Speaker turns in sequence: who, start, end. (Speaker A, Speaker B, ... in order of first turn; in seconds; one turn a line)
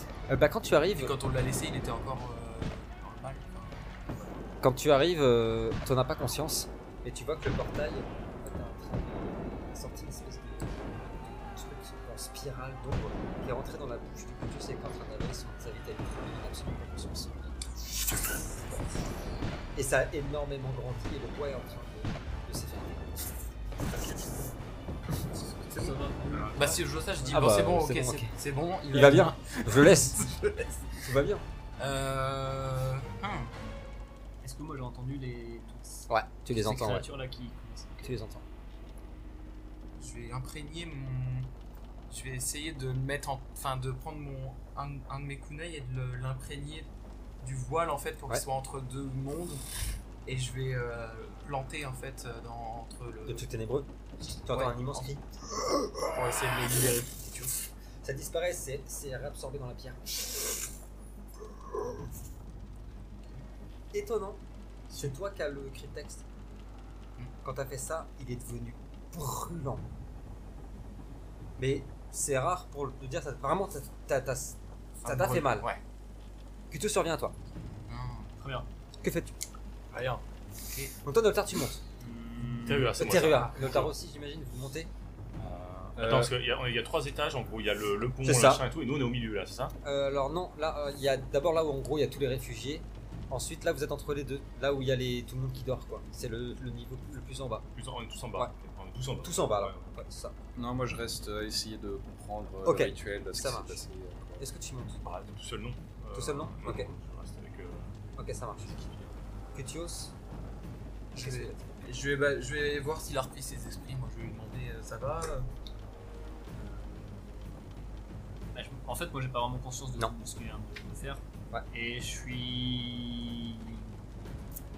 Speaker A: 0.3-1.1
Speaker B: 0.9-4.3
Speaker A: 4.6-17.6
Speaker A: 19.8-23.1
Speaker C: 25.5-27.4
Speaker D: 26.3-26.8
Speaker B: 26.5-30.3
Speaker A: 27.3-28.3
Speaker A: 28.9-31.4
Speaker B: 31.8-33.5
Speaker C: 34.4-38.2
Speaker A: 36.1-37.1
Speaker A: 38.0-38.4
Speaker B: 40.0-41.5
Speaker B: 42.1-46.9
Speaker B: 47.4-49.6
Speaker B: 50.3-53.5
Speaker A: 53.3-53.9
Speaker A: 54.5-55.2
Speaker B: 54.5-55.1
Speaker B: 56.0-57.5
Speaker A: 58.0-60.0
Speaker A: 63.9-64.4
Speaker A: 64.9-66.2
Speaker A: 67.4-69.9
Speaker A: 71.6-75.7
Speaker B: 75.0-75.8
Speaker A: 76.7-77.3
Speaker B: 77.9-78.3
Speaker C: 78.4-78.7
Speaker A: 79.0-79.3
Speaker B: 79.9-80.2
Speaker A: 81.0-81.8
Speaker C: 82.0-83.0
Speaker D: 82.6-83.9
Speaker A: 83.0-84.9
Speaker D: 85.4-89.8
Speaker E: 86.0-86.3
Speaker A: 88.2-88.6
Speaker A: 89.8-97.7
Speaker D: 97.8-100.0
Speaker A: 99.2-100.4
Speaker E: 100.6-104.4
Speaker A: 102.6-103.8
Speaker A: 104.4-105.0
Speaker D: 105.0-108.0
Speaker A: 106.1-106.9
Speaker A: 108.2-108.7
Speaker D: 108.6-109.2
Speaker A: 109.5-110.1
Speaker A: 111.2-111.6
Speaker B: 111.2-115.5
Speaker C: 118.5-123.9